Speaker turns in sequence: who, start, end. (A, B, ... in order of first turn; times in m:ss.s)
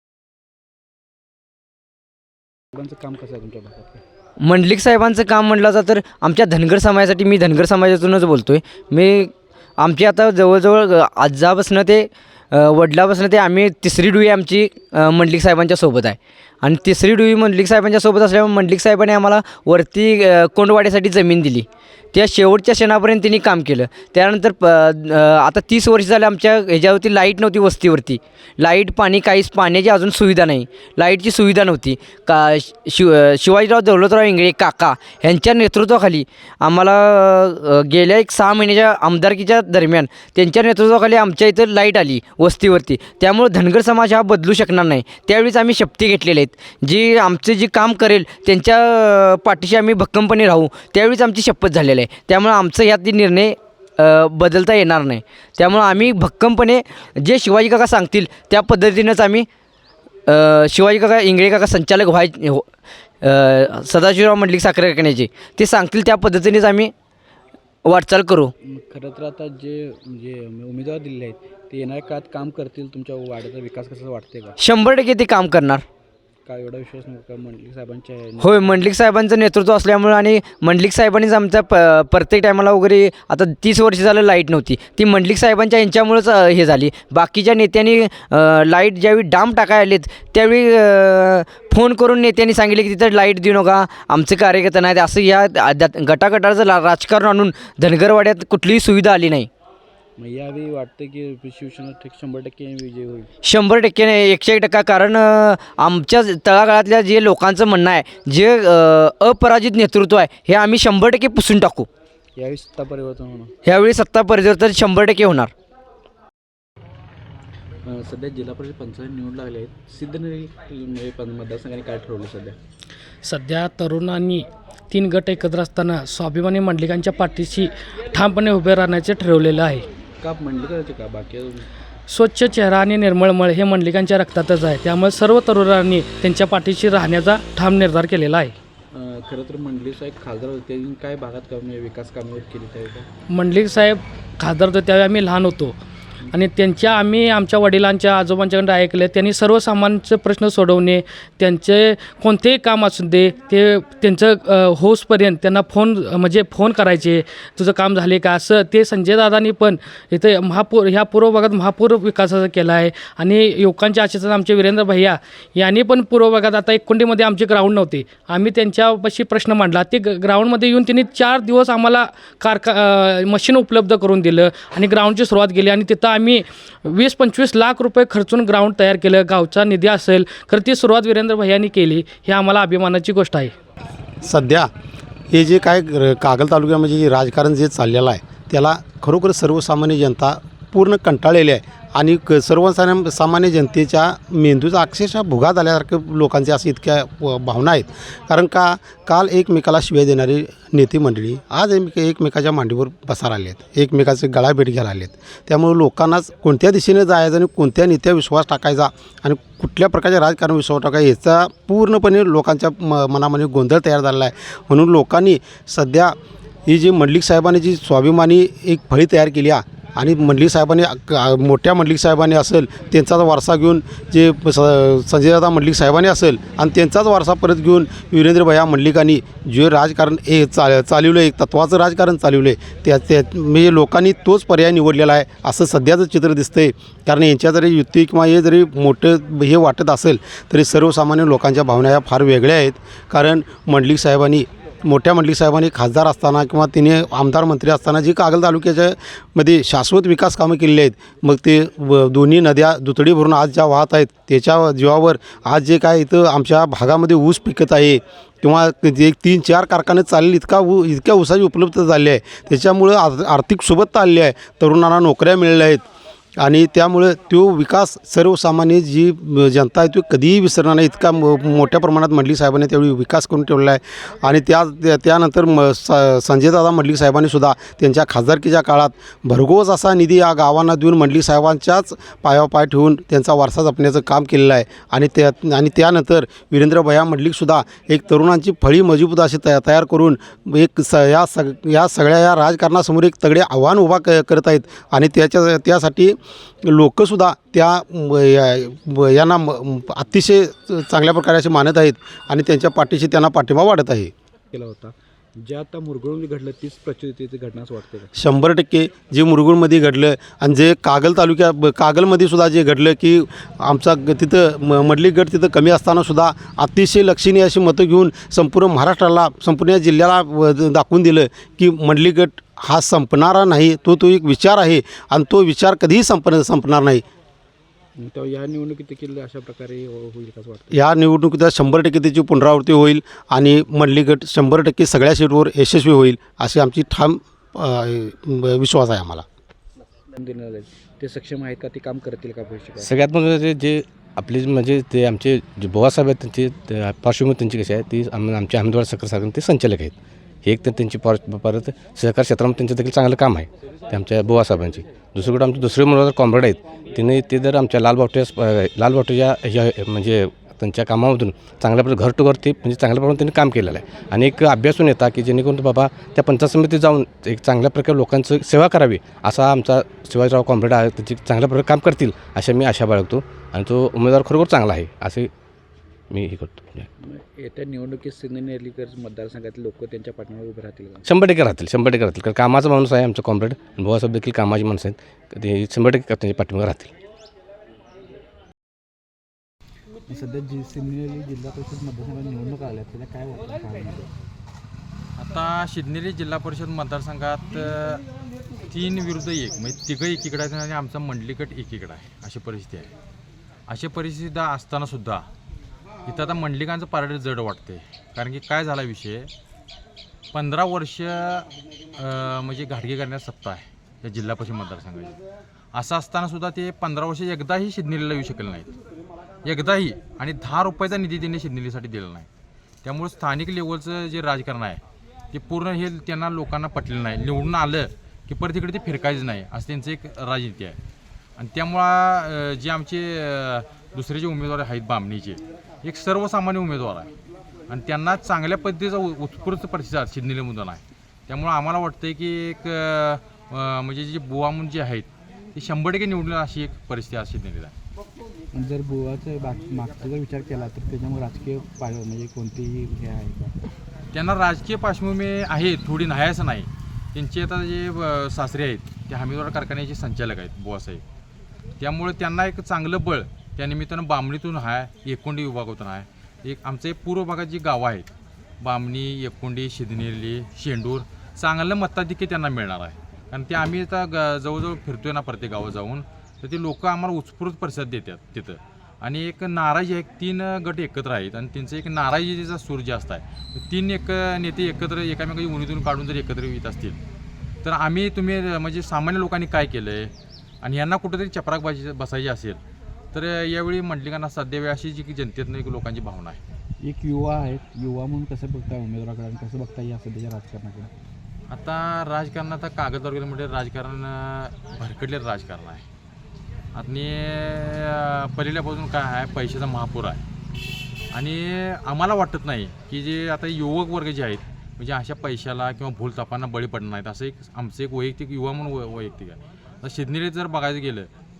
0:02.7-0:04.0 A
0:04.4-0:59.5 B
1:00.3-1:02.7 B
1:03.2-1:06.9 B
1:07.9-1:08.5 B
1:08.6-1:14.6 A
1:14.6-1:15.8 B
1:16.5-1:18.9 A
1:18.4-1:39.5 B
1:40.2-1:43.3 A
1:43.4-1:51.9 B
1:52.4-1:53.5 A
1:53.6-1:55.5 B
1:57.8-2:02.6 A
2:03.2-2:09.9 C
2:10.2-2:11.7 A
2:12.1-2:18.6 C
2:18.9-2:23.1 A
2:23.3-2:25.8 C
2:26.3-3:03.5 C
3:04.2-3:04.7 D
3:05.3-3:36.2 D
3:36.7-4:25.8 D
4:26.4-5:04.1 D
5:04.5-5:08.1 A
5:08.2-5:27.0 D
5:28.0-5:30.8 A
5:30.7-5:39.2 D
5:40.1-5:42.9 A
5:42.8-6:15.3 E
6:16.1-6:16.9 E
6:17.0-6:21.0 A
6:21.0-6:26.9 E
6:30.1-6:34.1 A
6:35.2-6:38.0 F
6:38.7-6:42.9 F
6:43.7-6:45.3 F
6:46.1-6:49.3 F
6:50.3-6:55.2 F
6:55.7-6:58.7 F
6:59.4-7:02.3 F
7:02.8-7:04.8 F
7:05.3-7:10.8 F
7:11.4-7:17.1 F
7:17.7-7:27.7 F
7:28.5-7:33.6 A
7:34.1-7:41.0 F
7:41.8-7:48.1 F
7:48.6-8:07.0 F
8:07.6-8:12.6 F
8:13.1-8:16.4 F
8:16.8-8:20.9 A
8:21.5-8:25.8 F
8:26.8-8:30.2 F
8:31.1-8:41.1 F